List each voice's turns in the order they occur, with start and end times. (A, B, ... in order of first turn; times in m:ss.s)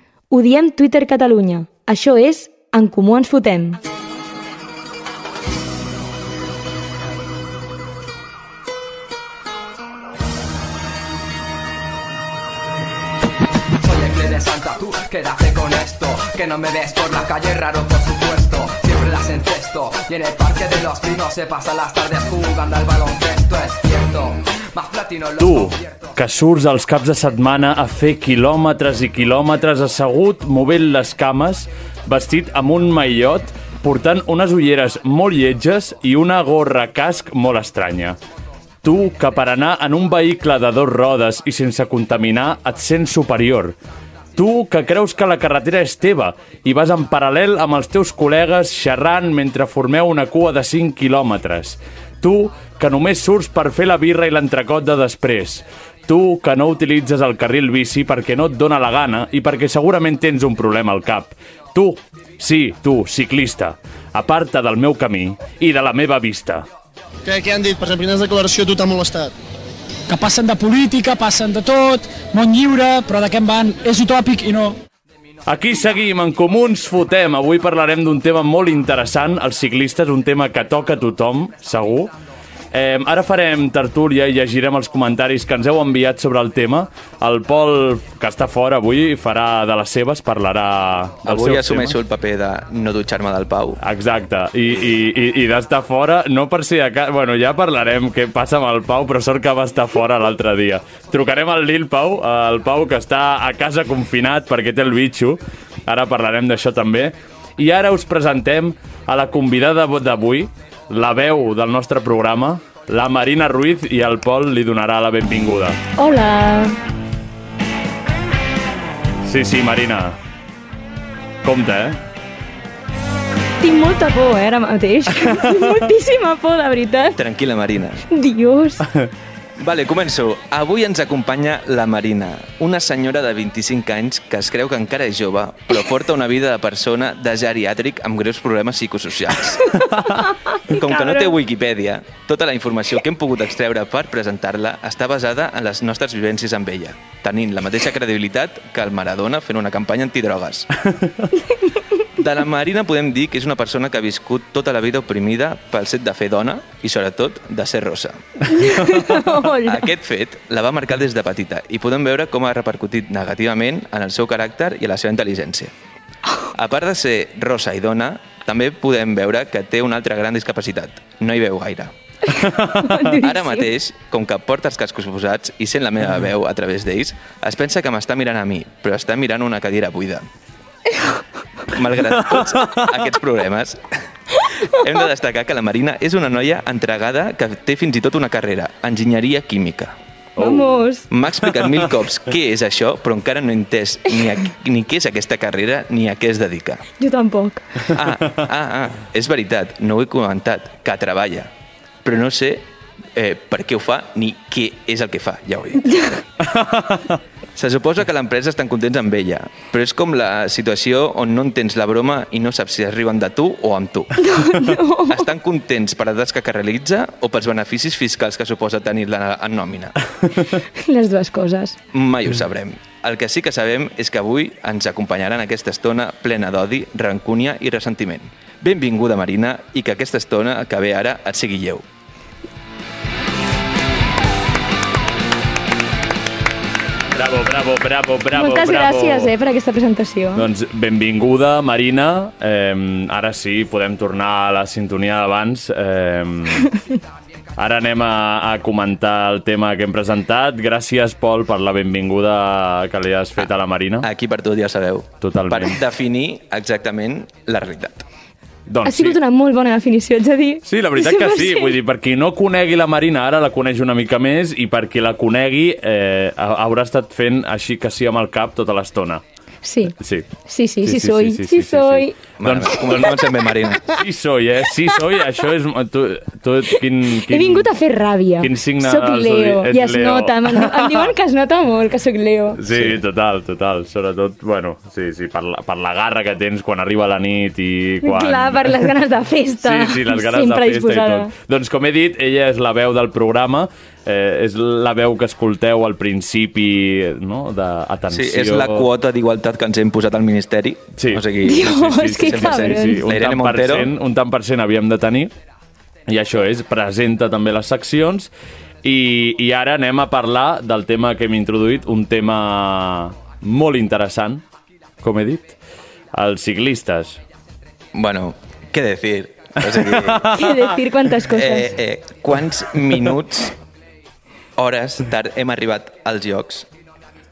0:00.3-0:03.8 A
0:13.8-0:26.1 B
0:25.4-0:38.2 C
0:38.8-0:43.8 C
0:44.4-1:06.6 C
1:07.2-1:09.3 D
1:10.1-1:14.8 E
1:15.5-1:22.1 C
1:22.7-1:32.0 C
1:31.2-1:33.8 F
1:33.8-1:55.8 C
1:56.0-1:56.8 A
1:59.2-2:00.2 C
2:01.4-2:02.0 C
2:03.6-2:07.2 A
2:05.2-2:05.8 C
2:07.2-2:08.0 F
2:08.1-2:08.9 A
2:09.6-2:19.8 F
2:19.7-2:21.3 A
2:20.7-2:30.7 F
2:32.2-2:38.5 F
2:38.4-2:39.9 A
2:39.6-2:45.7 F
2:46.5-2:51.9 F
2:52.3-2:53.7 A
2:52.4-2:53.1 C
2:53.2-3:00.3 F
3:01.7-3:03.8 F
3:02.4-3:02.8 C
3:04.4-3:04.7 A
3:04.6-3:10.0 F
3:10.4-3:10.8 C
3:10.4-3:11.0 A
3:11.1-3:16.8 F
3:17.0-3:17.9 A
3:17.8-3:21.5 F
3:22.0-3:26.0 F
3:25.9-3:26.2 A
3:26.4-3:27.0 C
3:27.6-3:34.3 F
3:34.2-3:35.2 A
3:35.1-3:40.0 F
3:40.8-3:41.8 A
3:41.9-3:51.8 F
3:57.1-3:59.3 C
3:58.3-4:00.5 A
4:00.4-4:06.7 C
4:07.6-4:14.1 C
4:14.0-4:18.0 F
4:15.2-4:15.8 C
4:18.7-4:19.2 C
4:18.8-4:21.8 A
4:20.6-4:29.2 C
4:29.6-4:32.2 A
4:30.0-4:30.3 C
4:30.8-4:33.0 C
4:32.4-4:34.0 F
4:33.9-4:37.7 C
4:36.7-4:42.6 A
4:38.4-4:41.1 C
4:42.6-4:48.9 C
4:42.7-4:43.0 F
4:48.0-4:51.3 A
4:49.6-4:58.9 C
4:58.1-5:03.9 F
5:01.0-5:05.3 C
5:01.4-5:03.0 A
5:06.1-5:08.3 C
5:08.8-5:14.4 C
5:15.0-5:15.5 C
5:16.1-5:17.2 C
5:17.9-5:20.3 F
5:19.7-5:20.7 C
5:20.3-5:21.7 A
5:21.3-5:23.5 F
5:24.6-5:26.7 F